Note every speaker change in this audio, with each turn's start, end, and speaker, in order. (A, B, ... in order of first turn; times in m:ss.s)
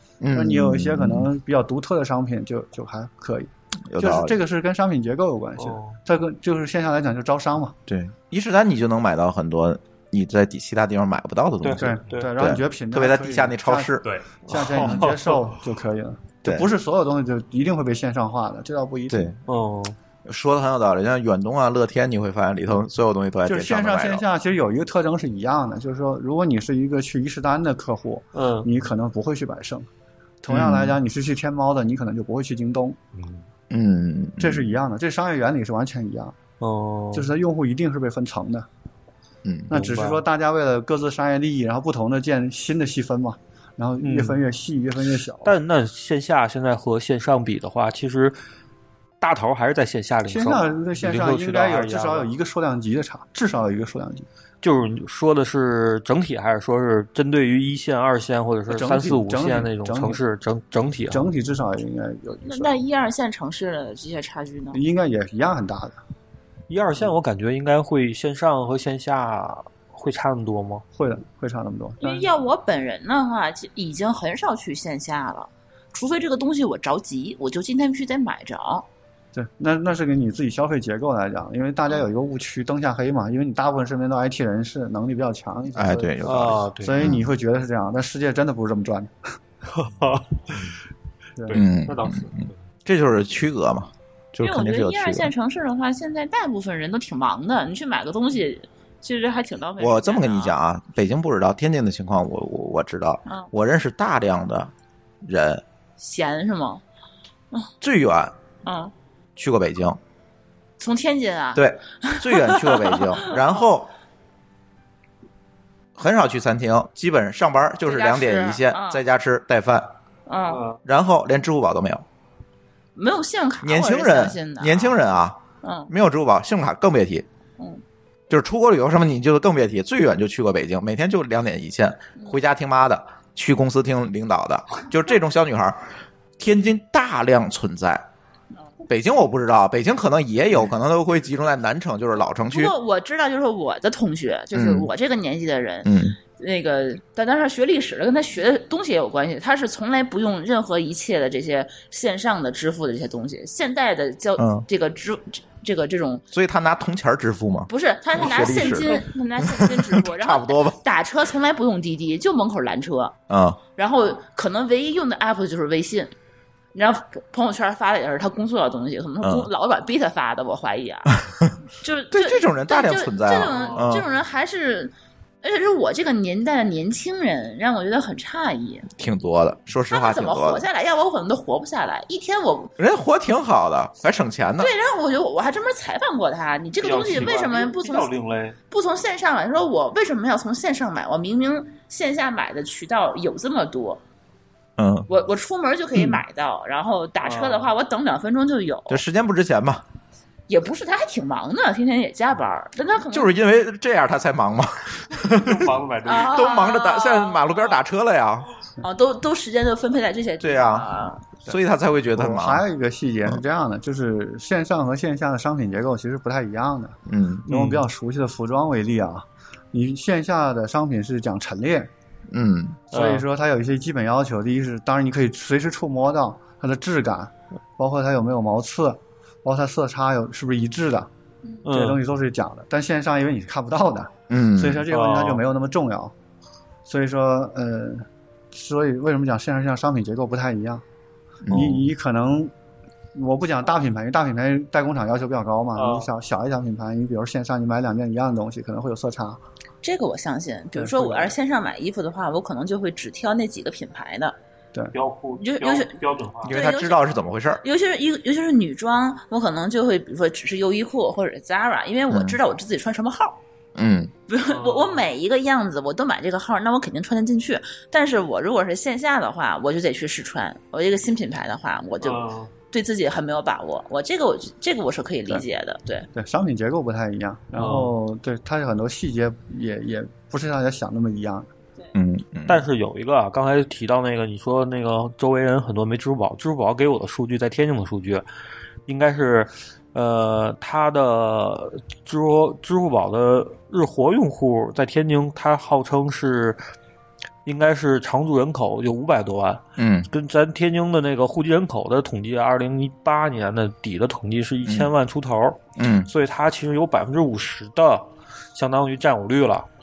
0:00.2-0:01.3 A
0:00.3-0:07.8 B
0:03.9-0:04.4 A
0:05.6-0:06.0 C
0:07.9-0:14.1 A
0:11.6-0:12.3 C
0:11.7-0:14.0 B
0:14.5-0:15.4 C
0:14.5-0:19.4 B
0:16.4-0:16.7 A
0:19.1-0:19.4 A
0:19.5-0:20.0 C
0:20.3-0:24.2 A
0:23.5-0:29.9 B
0:28.3-0:28.7 C
0:30.4-0:33.0 B
0:30.5-0:31.0 A
0:33.7-0:34.7 A
0:34.4-0:36.4 B
0:36.6-0:37.3 C
0:37.1-0:38.7 B
0:39.4-0:39.8 A
0:39.7-0:45.6 B
0:39.7-0:40.2 C
0:44.0-0:44.4 C
0:45.4-0:48.4 C
0:49.2-0:52.3 C
0:50.3-0:54.3 B
0:54.6-1:01.3 C
0:58.7-1:00.2 B
1:01.1-1:02.7 B
1:02.5-1:04.8 D
1:04.7-1:06.0 B
1:06.7-1:10.8 C
1:10.9-1:12.3 B
1:12.0-1:18.9 D
1:19.3-1:29.1 B
1:25.7-1:27.3 A
1:26.2-1:27.0 C
1:29.7-1:30.7 C
1:31.5-1:32.2 C
1:31.5-1:35.3 A
1:31.9-1:32.5 E
1:34.4-1:40.6 D
1:39.8-1:44.7 A
1:45.2-1:45.6 A
1:46.0-1:46.8 D
1:47.8-1:48.3 A
1:48.6-1:48.9 D
1:49.4-1:50.0 A
1:50.8-1:53.4 D
1:51.6-1:53.9 A
1:56.0-1:59.9 A
1:57.8-1:59.0 D
2:00.3-2:00.6 D
2:00.8-2:02.0 A
2:03.0-2:05.0 D
2:03.6-2:05.4 A
2:05.6-2:05.9 D
2:05.9-2:07.3 A
2:08.3-2:15.9 A
2:16.4-2:18.0 A
2:18.9-2:22.8 A
2:22.5-2:36.2 D
2:24.5-2:24.9 A
2:25.8-2:26.2 A
2:34.4-2:34.6 A
2:36.3-2:40.8 A
2:37.7-2:43.1 D
2:43.3-2:43.6 A
2:43.8-2:46.1 D
2:46.7-2:51.1 D
2:49.2-2:49.5 A
2:51.8-2:58.9 D
2:52.1-2:54.1 A
2:53.4-2:54.0 E
2:58.9-3:00.7 A
2:59.9-3:02.7 D
3:02.8-3:04.7 A
3:04.6-3:08.1 D
3:06.8-3:08.6 C
3:07.0-3:07.9 E
3:08.7-3:14.0 D
3:14.8-3:15.1 A
3:15.1-3:19.0 D
3:17.2-3:17.7 C
3:18.9-3:19.8 A
3:20.5-3:23.4 D
3:23.1-3:28.5 A
3:25.5-3:25.8 C
3:25.9-3:26.4 E
3:26.0-3:27.8 D
3:28.8-3:31.2 D
3:30.4-3:30.9 A
3:31.5-3:32.6 A
3:32.2-3:37.0 B
3:37.1-3:37.7 A
3:37.5-3:41.9 B
3:37.5-3:37.8 C
3:42.3-3:42.9 A
3:42.9-3:51.1 B
3:42.9-3:43.3 C
3:51.6-3:52.0 C
3:51.7-3:56.1 B
3:54.3-3:54.9 A
3:54.9-3:55.4 C
3:56.9-4:00.8 B
4:01.5-4:01.8 A
4:01.5-4:02.5 B
4:01.5-4:01.8 C
4:03.2-4:09.4 B
4:09.8-4:14.4 D
4:10.8-4:11.4 B
4:15.0-4:16.6 E
4:15.4-4:16.0 D
4:16.4-4:17.6 A
4:16.5-4:23.4 D
4:22.1-4:22.4 A
4:23.8-4:24.1 A
4:24.3-4:36.1 D
4:24.7-4:25.0 E
4:32.0-4:32.5 E
4:36.1-4:41.5 B
4:37.6-4:37.9 C
4:41.9-4:42.6 A
4:42.5-4:48.2 C
4:48.9-4:56.6 C
4:57.4-5:09.7 C
4:59.8-5:00.1 A
5:04.6-5:04.9 A
5:05.8-5:06.1 A